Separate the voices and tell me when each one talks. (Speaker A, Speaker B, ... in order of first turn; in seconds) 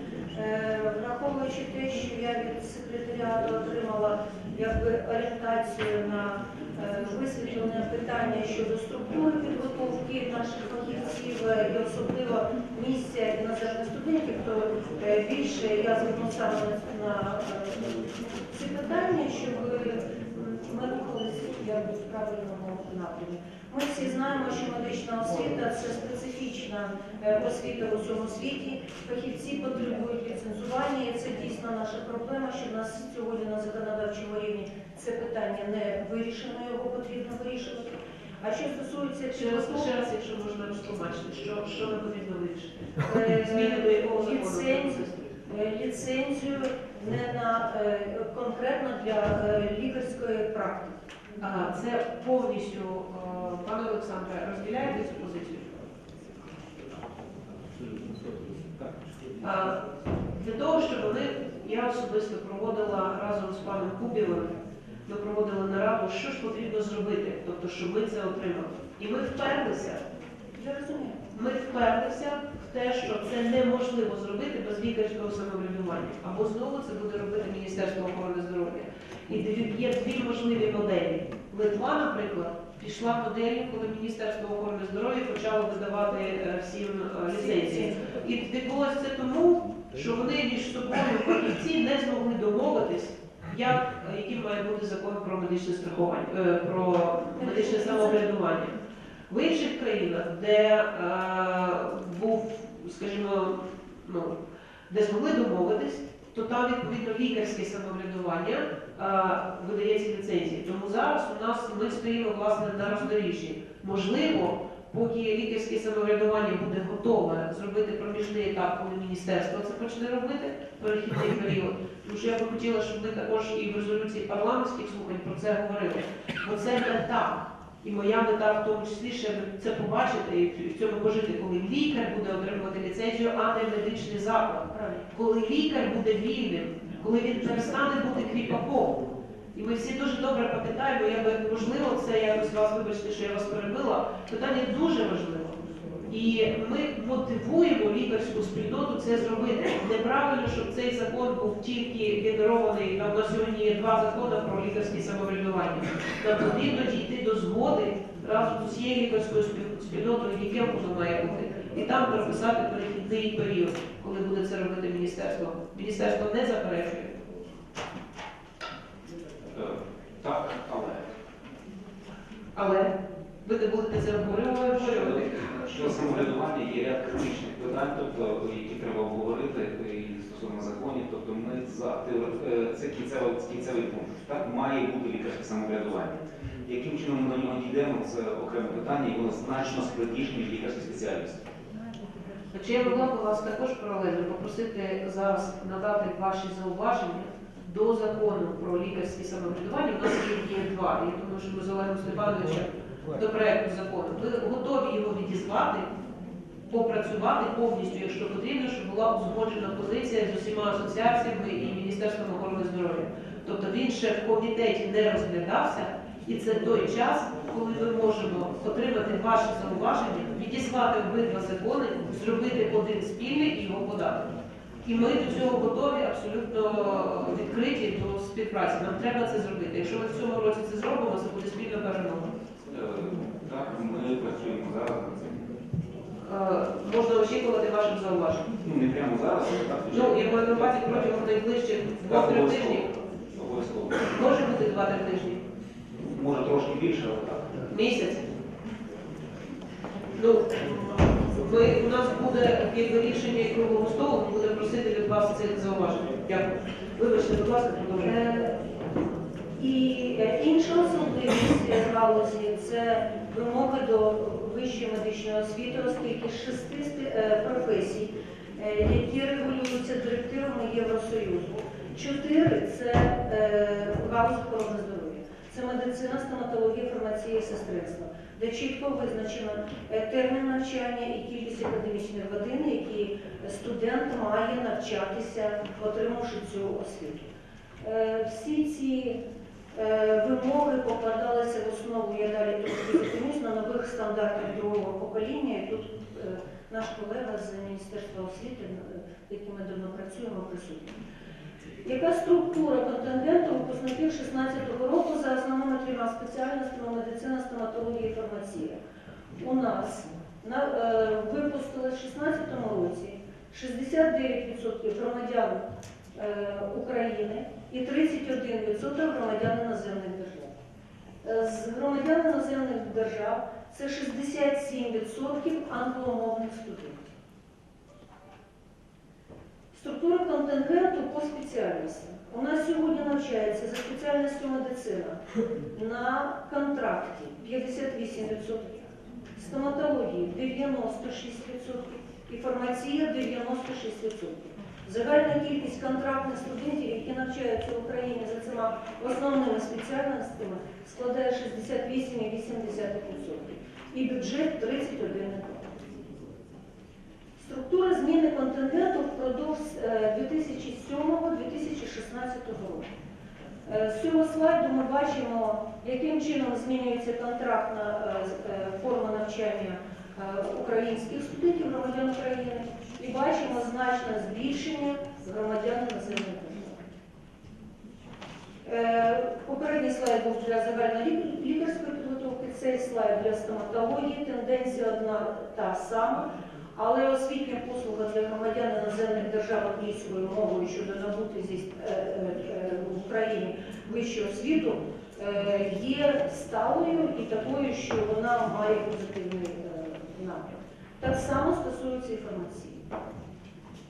Speaker A: 0.3-17.9, 18.5-39.9, 43.0-51.0, 70.5-71.2, 87.3-88.2, 97.4-98.3, 134.7-135.1, 137.4-137.8, 258.0-258.6, 259.6-289.2, 289.7-301.0, 301.8-308.8, 309.4-320.5, 321.2-327.1, 329.7-335.2, 335.7-355.8, 357.4-362.9, 363.7-376.9, 378.6-402.8
Speaker B: 39.3-45.1, 51.4-55.8, 59.4-59.8, 60.4-70.0, 71.3-98.8, 99.3-104.3, 104.9-139.0, 139.5-167.2, 172.5-172.9, 173.4-176.3, 192.5-205.9, 206.7-224.3, 224.8-232.3, 236.2-238.4, 239.9-242.8, 244.1-245.4, 247.7-248.2, 250.1-258.4
Speaker C: 169.5-171.1, 174.7-191.4, 232.7-235.6, 238.6-241.1, 242.1-244.1, 246.1-247.6